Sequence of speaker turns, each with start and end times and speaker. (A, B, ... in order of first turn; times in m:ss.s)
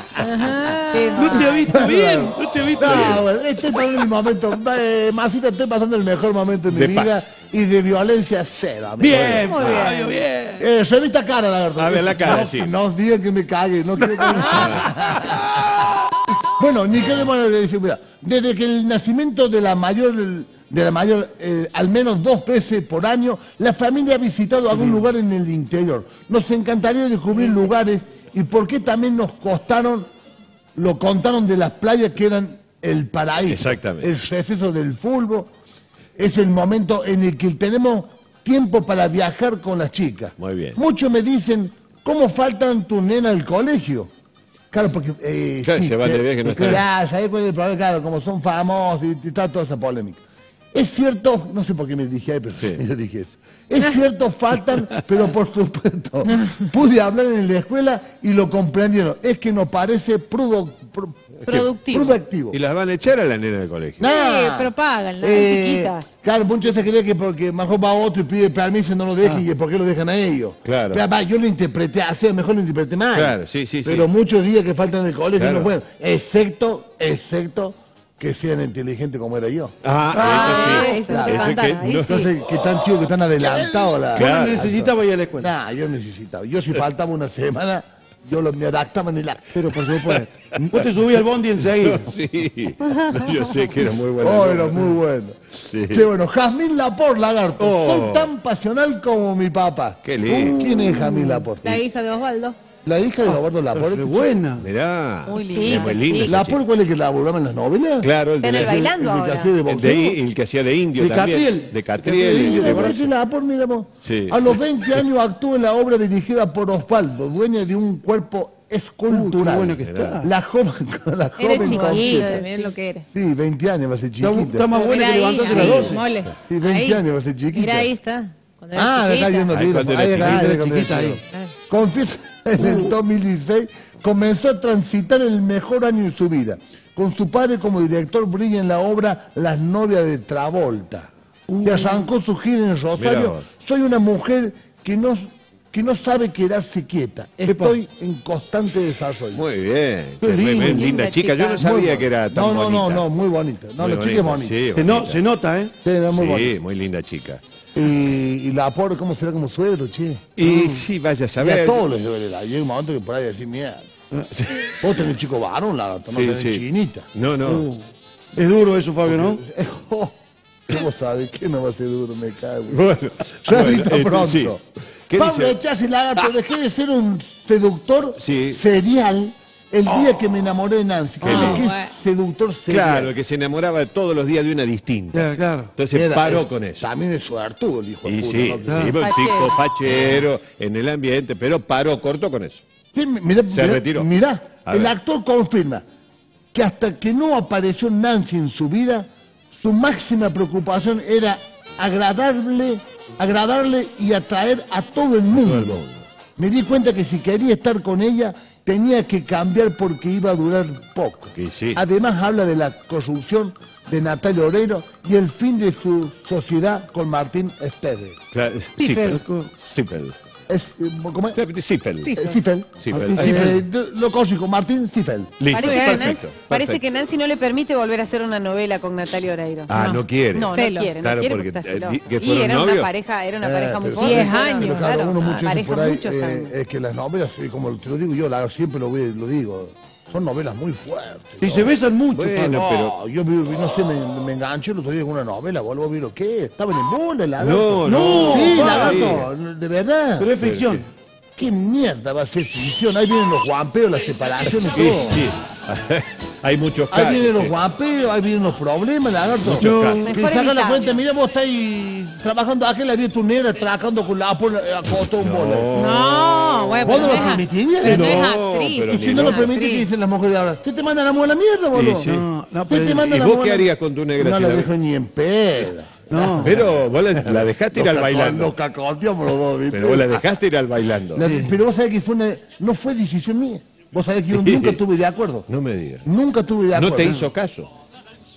0:00.2-0:01.4 A
0:00.9-0:01.7 B
0:01.2-0:03.2 C
0:01.7-0:09.6 D
0:02.9-0:03.2 E
0:06.7-0:07.3 E
0:09.0-0:10.7 C
0:09.5-0:10.2 A
0:09.5-0:10.0 B
0:10.6-0:30.1 D
0:11.8-0:12.7 E
0:14.0-0:14.9 C
0:14.5-0:14.9 E
0:30.8-0:35.5 D
0:33.5-0:34.1 E
0:36.2-0:44.1 D
0:40.4-0:40.8 E
0:44.7-0:50.2 D
0:45.6-0:46.8 E
0:50.7-1:02.6 D
1:01.5-1:02.2 B
1:02.5-1:04.1 E
1:04.0-1:19.8 D
1:04.0-1:05.4 A
1:05.2-1:06.1 B
1:10.6-1:11.0 E
1:13.1-1:14.1 E
1:15.4-1:15.7 E
1:19.8-1:22.2 E
1:20.1-1:21.1 C
1:20.2-1:22.3 B
1:20.3-1:22.0 A
1:20.4-1:30.2 D
1:24.1-1:25.5 C
1:24.1-1:24.6 E
1:29.5-1:32.1 C
1:31.8-1:34.9 E
1:32.9-1:33.5 B
1:34.2-1:41.8 D
1:35.7-1:36.1 E
1:37.6-1:38.3 E
1:40.0-1:40.8 E
1:40.6-1:41.5 C
1:41.6-1:42.6 A
1:42.8-1:44.3 D
1:43.3-1:44.6 C
1:44.6-1:46.6 E
1:45.3-1:46.1 B
1:45.5-1:46.3 A
1:46.2-1:50.2 D
1:48.0-1:48.9 E
1:48.4-1:49.5 B
1:49.7-1:53.0 E
1:51.0-1:53.0 C
1:52.1-2:02.5 D
1:54.0-1:54.5 E
1:59.1-2:00.3 C
1:59.8-2:00.2 E
2:01.4-2:03.0 A
2:01.5-2:02.7 B
2:03.1-2:04.8 D
2:04.2-2:06.0 C
2:04.8-2:09.5 A
2:05.4-2:07.9 D
2:05.6-2:06.3 E
2:08.8-2:21.1 D
2:09.5-2:10.5 E
2:10.2-2:11.2 C
2:12.6-2:12.9 C
2:21.5-2:22.1 C
2:21.6-2:29.4 D
2:23.0-2:23.5 E
2:27.5-2:27.8 C
2:29.3-2:33.0 E
2:30.2-2:31.0 C
2:30.6-2:31.7 B
2:31.6-2:34.6 D
2:33.8-2:35.2 E
2:34.8-2:35.7 C
2:35.8-2:36.6 D
2:36.1-2:37.4 E
2:37.7-2:40.3 D
2:40.4-2:41.9 E
2:40.4-2:40.8 C
2:41.4-2:43.9 D
2:44.3-2:44.8 E
2:44.7-2:47.1 D
2:46.1-2:46.6 E
2:47.1-2:47.7 E
2:47.4-2:49.4 C
2:49.1-2:50.1 D
2:50.7-2:52.8 D
2:52.7-2:54.6 E
2:53.4-2:54.6 D
2:55.1-2:55.6 E
2:55.1-3:03.2 D
2:58.2-2:58.6 E
3:01.2-3:01.7 C
3:01.2-3:01.6 E
3:01.4-3:01.9 A
3:02.7-3:06.9 E
3:05.1-3:05.7 C
3:05.9-3:09.0 D
3:08.1-3:12.6 E
3:08.7-3:08.9 C
3:09.0-3:09.6 B
3:12.9-3:15.8 D
3:13.5-3:14.1 E
3:14.6-3:14.9 E
3:16.5-3:19.1 D
3:19.6-3:25.8 D
3:25.4-3:26.1 E
3:26.4-3:38.2 D
3:31.4-3:31.8 E
3:38.3-3:40.2 E
3:38.8-3:39.2 A
3:39.0-3:39.5 C
3:40.5-3:41.4 D
3:41.4-3:42.1 E
3:42.0-3:42.4 A
3:42.2-3:45.5 D
3:42.8-3:43.5 E
3:42.9-3:43.6 C
3:45.4-3:46.8 E
3:45.5-3:49.7 B
3:45.6-3:46.2 A
3:49.7-3:52.9 E
3:49.7-3:51.0 A
3:50.3-3:56.5 B
3:53.4-4:01.7 D
3:53.9-3:54.9 A
4:01.4-4:02.6 C
4:02.1-4:03.0 E
4:02.5-4:10.3 D
4:07.4-4:09.3 E
4:07.8-4:09.2 C
4:10.2-4:10.9 C
4:10.4-4:10.8 E
4:11.4-4:15.2 D
4:14.6-4:17.5 E
4:16.9-4:25.8 D
4:19.4-4:20.1 E
4:19.5-4:20.1 C
4:20.0-4:21.0 B
4:25.1-4:29.6 E
4:25.7-4:29.9 A
4:26.8-4:28.3 D
4:28.8-4:32.1 D
4:31.7-4:32.3 E
4:32.0-4:33.2 C
4:32.7-4:40.3 D
4:33.0-4:34.7 E
4:36.1-4:36.5 C
4:36.4-4:38.5 E
4:39.7-4:41.3 E
4:41.2-4:45.5 D
4:41.2-4:41.5 C
4:44.3-4:44.8 E
4:45.5-4:46.1 E
4:46.0-4:47.2 D
4:46.7-4:47.7 E